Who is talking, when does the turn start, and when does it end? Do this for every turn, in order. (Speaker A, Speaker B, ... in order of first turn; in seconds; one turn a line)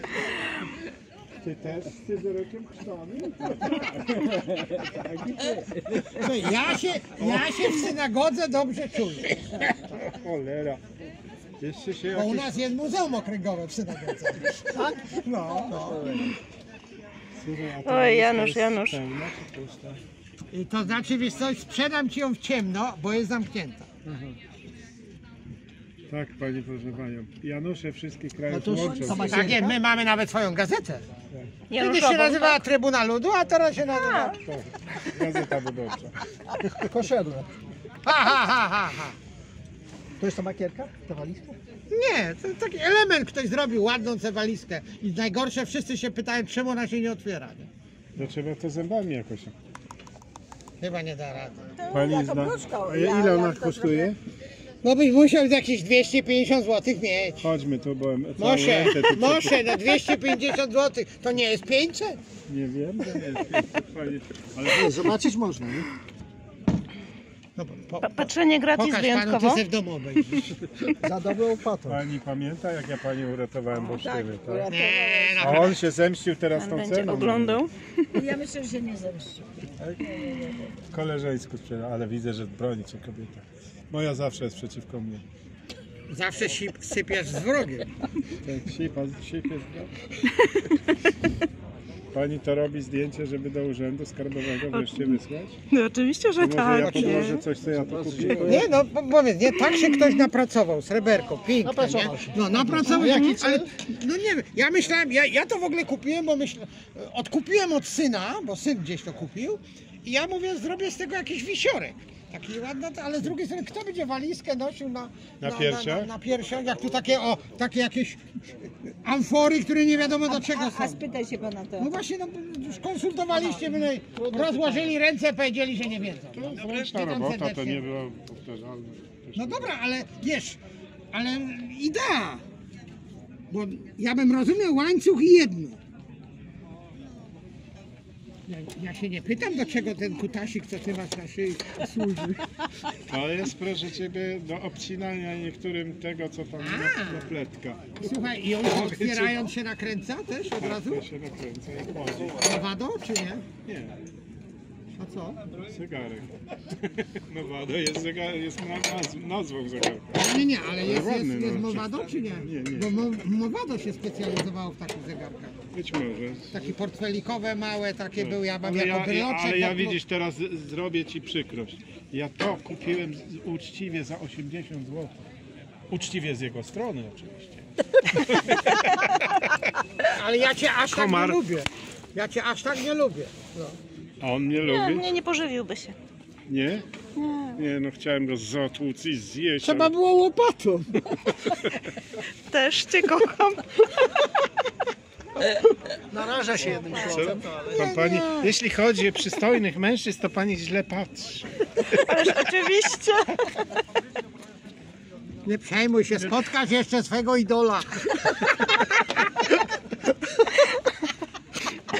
Speaker A: 1.4-6.3
Speaker B: 6.2-9.4
Speaker A: 7.2-7.8
Speaker A: 10.0-10.8
Speaker A: 11.6-12.6
Speaker B: 12.1-16.2
Speaker A: 17.4-20.0
Speaker C: 17.8-19.0
Speaker B: 20.5-24.0
Speaker A: 24.1-24.3
Speaker A: 26.1-29.5
Speaker D: 28.5-29.8
Speaker B: 28.8-31.0
Speaker C: 31.7-32.6
Speaker B: 31.8-34.4
Speaker C: 33.9-34.3
Speaker A: 34.4-36.1
Speaker D: 36.8-37.5
Speaker B: 38.0-39.1
Speaker D: 40.2-41.6
Speaker B: 41.9-47.7
Speaker A: 48.1-49.5
Speaker B: 50.8-51.7
Speaker E: 51.8-54.1
Speaker A: 51.9-54.2
Speaker B: 54.8-57.5
Speaker A: 57.4-59.7
Speaker B: 58.4-62.2
Speaker A: 62.5-65.2
Speaker D: 64.6-65.8
Speaker B: 67.5-70.6
Speaker C: 68.0-69.6
Speaker D: 71.0-72.1
Speaker A: 71.8-74.7
Speaker E: 73.9-75.7
Speaker B: 74.7-75.8
Speaker A: 75.4-77.6
Speaker C: 76.5-77.7
Speaker E: 78.1-79.5
Speaker E: 80.0-80.6
Speaker A: 80.9-85.2
Speaker B: 86.1-87.9
Speaker A: 88.4-89.9
Speaker A: 92.1-95.6
Speaker C: 94.7-95.2
Speaker C: 95.7-97.4
Speaker A: 96.4-98.7
Speaker D: 96.7-98.8
Speaker B: 98.4-118.2
Speaker C: 99.5-100.3
Speaker D: 101.6-103.7
Speaker C: 103.0-103.4
Speaker A: 115.4-116.1
Speaker B: 119.0-121.0
Speaker E: 120.3-121.9
Speaker B: 121.8-127.8
Speaker D: 124.1-124.9
Speaker A: 126.3-129.7
Speaker B: 129.3-130.6
Speaker B: 131.1-132.4
Speaker B: 133.5-135.8
Speaker B: 138.5-142.4
Speaker A: 143.1-149.4
Speaker B: 146.6-147.3
Speaker B: 148.0-151.0
Speaker A: 150.6-152.4
Speaker B: 152.3-153.4
Speaker A: 153.6-154.0
Speaker B: 155.0-155.4
Speaker A: 155.7-156.3
Speaker A: 157.2-163.0
Speaker B: 160.2-165.6
Speaker A: 165.7-166.7
Speaker B: 166.5-170.0
Speaker A: 168.2-175.1
Speaker A: 175.9-179.0
Speaker B: 180.1-183.8
Speaker A: 180.9-181.4
Speaker A: 184.2-185.1
Speaker C: 184.6-185.9
Speaker A: 186.5-186.8
Speaker C: 187.2-187.6
Speaker A: 187.6-189.9
Speaker B: 189.6-191.1
Speaker C: 192.5-193.6
Speaker D: 196.1-197.9
Speaker B: 196.6-198.2
Speaker A: 197.0-202.4
Speaker C: 202.1-203.3
Speaker B: 205.4-208.2